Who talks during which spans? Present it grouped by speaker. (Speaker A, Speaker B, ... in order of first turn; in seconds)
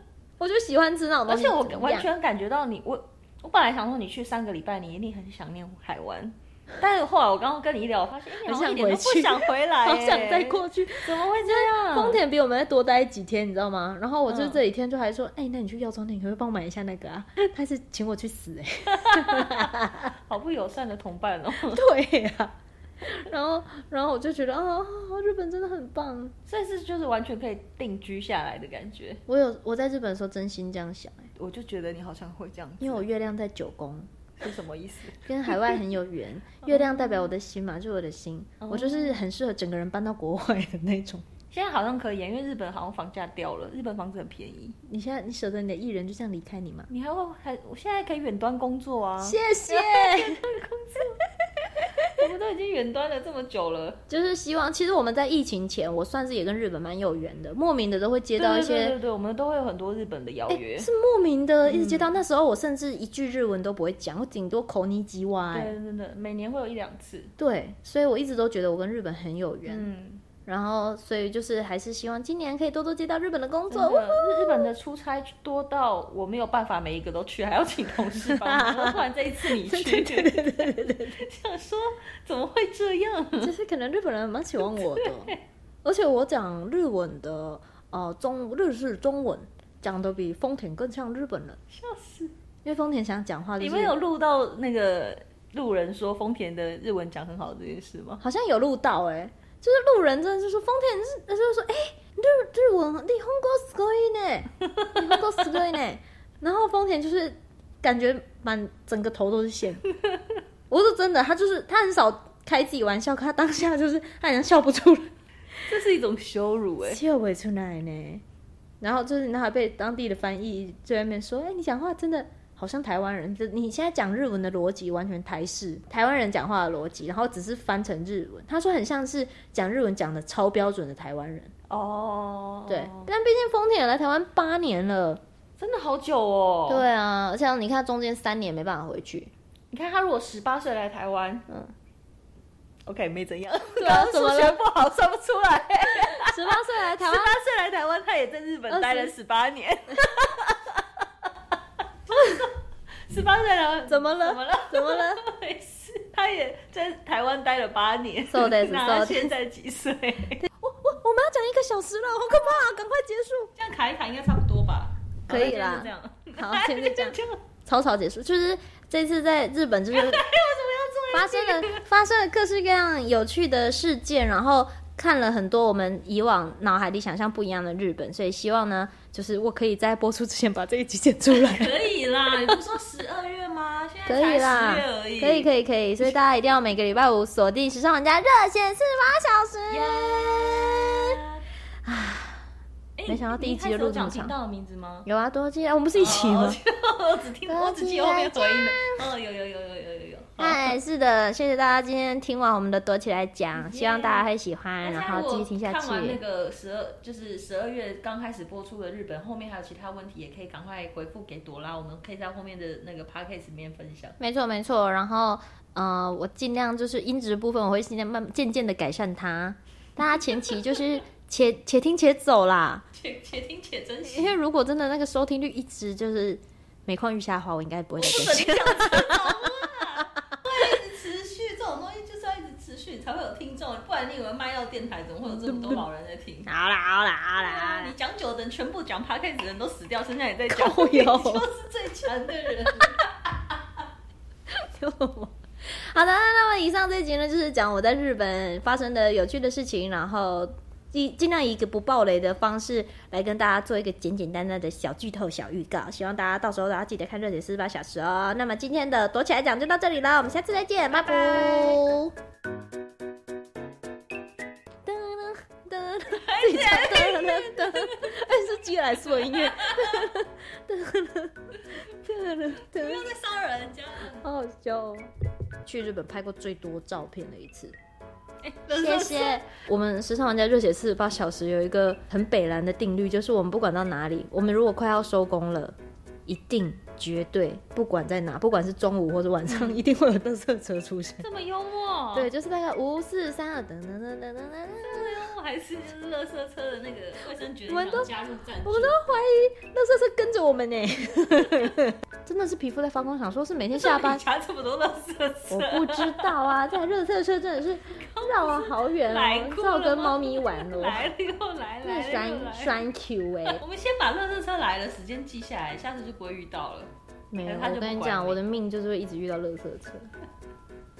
Speaker A: 0.4-2.1, 8.4-20.1, 21.6-26.3, 29.3-31.3, 32.8-34.1, 35.2-41.2, 44.9-46.9, 49.2-50.4, 54.1-59.0, 60.5-65.7, 67.4-69.9, 70.5-74.7, 78.3-81.2, 83.4-91.6, 92.6-94.0, 98.2-109.8, 110.7-115.1, 116.9-118.2, 118.8-131.5, 132.7-135.2, 136.7-139.3, 141.5-141.7, 143.8-144.6, 145.9-147.3, 148.7-149.1, 153.9-155.2, 158.3-159.3, 160.5-163.5, 165.3-170.2, 171.1-182.6, 184.1-191.2, 191.8-192.4, 193.1-194.3, 195.0-196.6, 197.5-199.1, 200.4-206.2, 214.2-222.8, 224.1-229.5, 235.3-235.8, 236.5-237.9, 240.5-241.5, 244.6-262.1, 264.8-273.1, 274.2-275.1, 275.6-277.8, 278.7-285.7, 286.3-291.2, 292.1-295.2, 297.7-304.2, 305.5-311.1, 311.8-313.6, 317.3-320.1
Speaker B: 1.3-12.2, 14.3-14.6, 18.9-21.8, 26.5-29.2, 31.4-33.0, 34.4-35.8, 36.6-37.3, 38.6-39.2, 41.5-44.8, 46.9-54.0, 58.4-60.9, 61.6-62.2, 65.5-67.3, 69.7-70.2, 73.7-83.5, 84.6-85.4, 91.7-92.3, 93.6-98.2, 104.8-105.1, 115.7-117.0, 131.7-133.1, 135.6-136.8, 139.7-141.4, 142.8-151.0, 152.1-152.5, 153.1-160.5, 163.5-167.4, 169.9-171.8, 181.3-185.5, 189.7-191.4, 192.9-195.1, 195.9-200.8, 203.6-204.3, 204.8-214.2, 222.9-224.4, 228.0-236.5, 237.4-243.8, 260.9-261.8, 266.1-268.3, 269.0-270.1, 272.5-274.2, 278.4-279.4, 289.5-289.8, 291.2-292.3, 294.8-299.0, 303.8-306.3, 307.9-312.9, 313.4-316.9, 317.4-318.4